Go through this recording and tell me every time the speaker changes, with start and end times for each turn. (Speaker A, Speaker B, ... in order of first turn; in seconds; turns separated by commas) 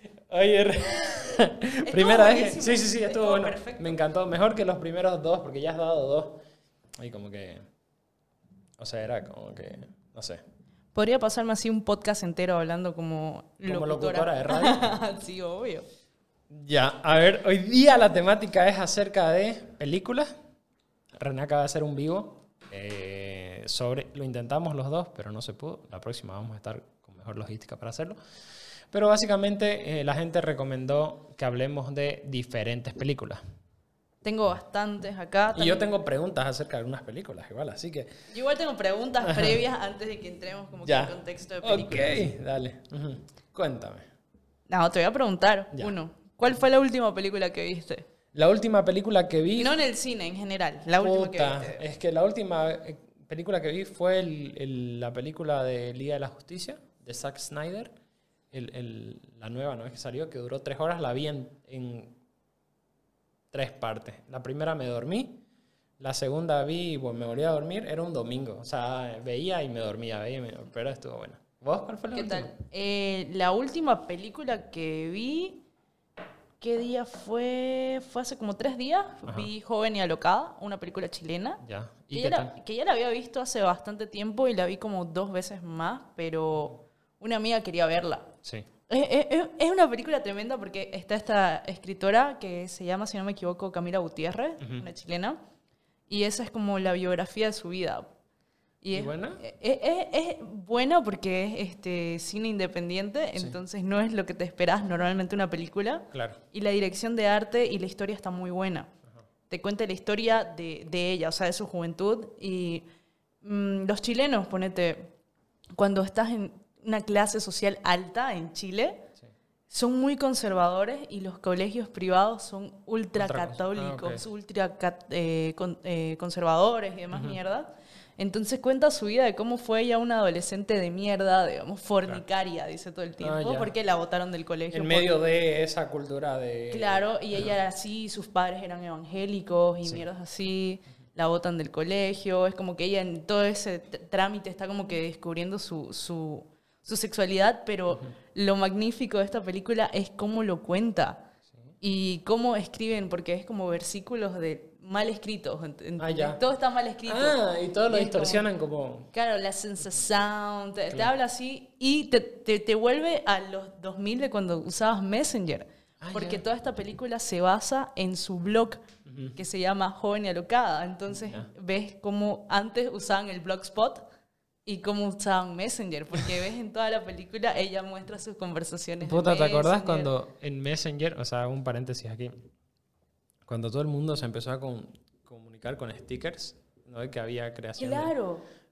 Speaker A: 0.3-6.4, Speaker B: 1.8-4.0, Speaker A: 7.0-7.6, Speaker A: 8.8-10.4, Speaker B: 10.9-15.8, Speaker A: 13.7-14.9, Speaker A: 16.5-20.3, Speaker A: 21.2-28.2, Speaker A: 28.9-33.4, Speaker B: 34.2-35.8, Speaker A: 35.5-38.1, Speaker B: 38.3-42.3, Speaker A: 39.2-39.6, Speaker A: 40.9-44.1, Speaker B: 44.7-48.0, Speaker A: 48.3-49.8, Speaker B: 49.6-51.8, Speaker A: 51.0-57.9, Speaker A: 58.5-62.1, Speaker A: 63.5-65.4, Speaker A: 66.0-72.5, Speaker B: 72.1-75.6, Speaker B: 76.6-81.6, Speaker A: 81.6-82.5, Speaker B: 82.1-88.3, Speaker B: 88.9-95.4, Speaker A: 94.6-94.9, Speaker B: 96.1-98.1, Speaker B: 98.8-108.9, Speaker A: 98.9-99.4, Speaker A: 106.1-106.4, Speaker B: 109.5-112.8, Speaker B: 113.4-115.1, Speaker B: 115.7-119.1, Speaker B: 119.7-135.2, Speaker A: 123.2-124.2, Speaker A: 127.1-127.4, Speaker A: 133.2-133.7, Speaker A: 134.7-137.5, Speaker B: 136.7-151.2, Speaker B: 151.8-158.4, Speaker A: 156.0-156.4, Speaker A: 157.0-159.1, Speaker B: 159.1-168.8, Speaker A: 166.0-166.4, Speaker A: 169.1-169.4, Speaker B: 169.3-174.0, Speaker A: 171.1-171.5, Speaker B: 174.7-180.1, Speaker A: 179.0-182.4, Speaker A: 183.4-188.1, Speaker B: 187.8-188.4